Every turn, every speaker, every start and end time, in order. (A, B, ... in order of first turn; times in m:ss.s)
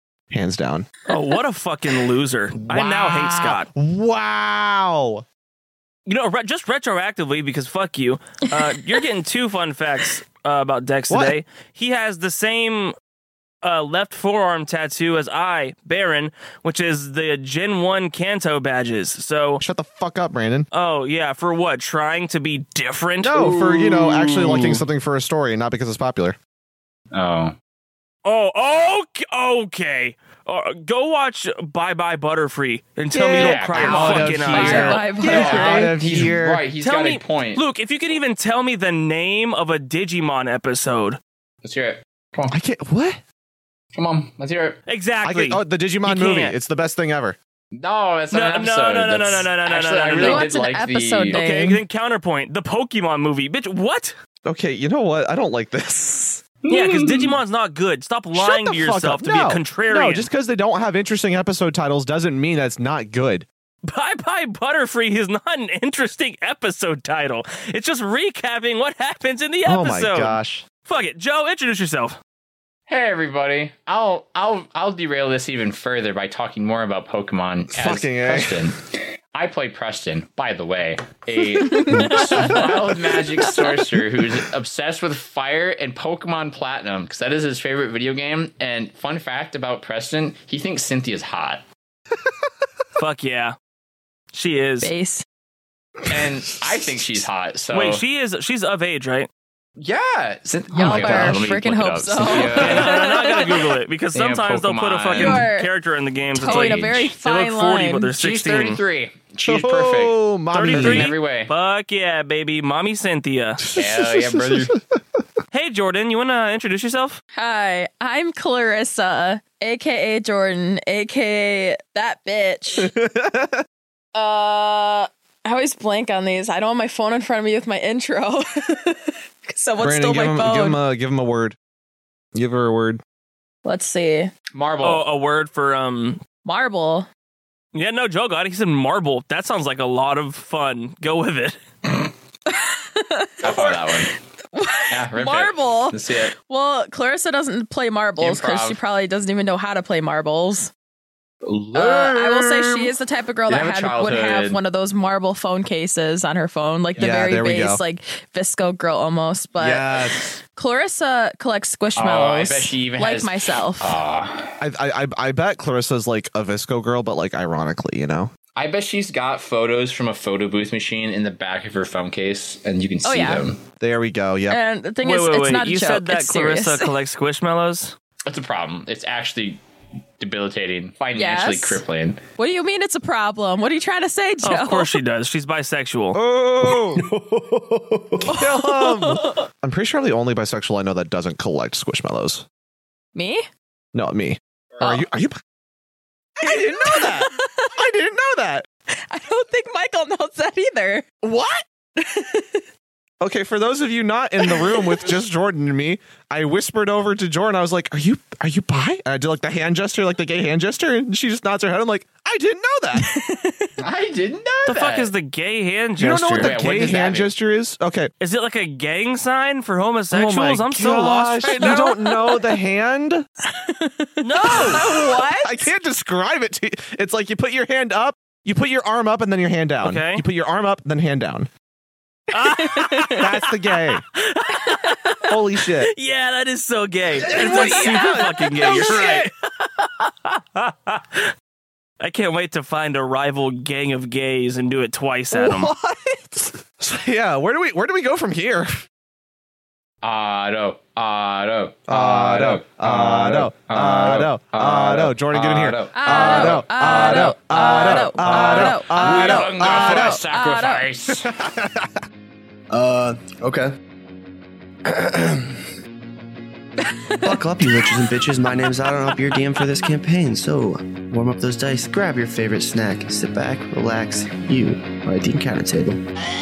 0:00.3-0:00.9 A
0:01.1-0:03.7 B
0:02.7-0:05.2 A
0:06.1-0:12.9 B
0:13.6-0:19.6 B
0:19.6-0:20.7 A
0:20.7-0:23.4 B
0:23.2-0:26.4 A
0:23.4-0:24.8 C
0:27.1-0:27.6 C
0:28.2-0:35.7 B
0:33.1-0:36.6 A
0:33.4-0:37.6 C
0:34.5-0:36.0 D
0:36.8-0:41.2 B
0:41.6-0:42.6 C
0:42.5-0:43.2 A
0:43.9-0:44.8 C
0:44.9-0:46.6 B
0:45.2-0:47.4 A
0:47.7-0:51.4 C
0:48.3-0:50.5 B
0:50.1-0:51.8 D
0:51.3-0:54.1 B
0:54.4-0:56.4 A
0:56.6-0:57.4 C
0:56.7-1:00.3 B
0:58.3-1:03.4 A
1:03.9-1:12.2 B
1:09.6-1:10.6 A
1:12.9-1:31.6 C
1:17.7-1:18.7 A
1:21.4-1:23.7 D
1:21.9-1:22.6 A
1:33.0-1:33.6 B
1:34.3-1:34.9 B
1:34.8-1:35.2 D
1:36.1-1:38.0 C
1:37.7-1:39.3 B
1:39.8-1:43.4 C
1:40.7-1:43.5 D
1:40.8-1:41.4 A
1:42.5-1:48.8 B
1:44.1-1:45.5 C
1:45.1-1:45.7 D
1:46.3-1:48.1 D
1:46.4-1:47.0 C
1:48.2-1:51.5 C
1:49.5-1:51.2 A
1:50.5-1:53.6 B
1:53.6-1:54.8 A
1:53.8-1:54.8 C
1:55.5-1:57.2 B
1:57.4-2:02.9 D
2:02.7-2:03.6 A
2:04.1-2:10.8 D
2:09.8-2:11.6 A
2:12.3-2:13.0 A
2:13.6-2:14.3 D
2:14.5-2:15.0 C
2:14.8-2:16.2 B
2:16.4-2:17.1 D
2:17.8-2:21.6 B
2:22.5-2:30.7 D
2:23.4-2:24.1 C
2:24.9-2:26.3 C
2:28.2-2:28.8 C
2:31.4-2:32.9 C
2:31.7-2:44.0 D
2:33.5-2:34.6 C
2:36.9-2:37.8 A
2:39.6-2:40.4 A
2:41.9-2:44.6 C
2:44.6-2:48.3 A
2:48.6-2:53.6 C
2:53.0-2:53.4 D
2:53.8-2:54.6 A
2:54.5-2:56.9 D
2:55.0-2:57.9 B
2:58.3-2:59.6 C
3:00.2-3:02.2 C
3:01.2-3:01.8 D
3:02.4-3:05.0 D
3:04.4-3:06.2 B
3:06.1-3:07.0 A
3:06.6-3:08.4 E
3:08.2-3:12.4 A
3:08.3-3:09.4 D
3:13.1-3:13.4 D
3:13.9-3:15.4 A
3:16.4-3:18.6 A
3:16.4-3:17.8 D
3:19.1-3:21.0 D
3:21.2-3:21.6 A
3:22.0-3:22.6 D
3:23.2-3:33.1 A
3:24.4-3:25.2 D
3:32.9-3:33.7 D
3:33.8-3:35.1 C
3:34.6-3:36.6 B
3:36.0-3:38.1 A
3:36.4-3:37.3 C
3:38.2-3:41.9 B
3:40.1-3:43.2 A
3:41.5-3:42.6 D
3:43.5-3:45.7 D
3:44.2-3:44.8 B
3:44.5-3:51.5 A
3:49.8-3:50.2 B
3:52.3-3:53.4 B
3:52.4-3:53.3 D
3:53.0-3:54.0 A
3:54.0-3:55.2 B
3:54.6-3:55.2 D
3:55.3-3:55.9 A
3:55.8-4:01.3 B
3:57.2-3:59.3 A
3:57.4-3:58.7 D
4:02.0-4:05.7 B
4:05.3-4:08.8 A
4:10.0-4:21.3 C
4:11.9-4:20.2 A
4:15.9-4:20.9 D
4:21.1-4:22.0 A
4:22.7-4:23.7 E
4:24.8-4:25.6 E
4:26.8-4:28.1 D
4:27.2-4:36.0 E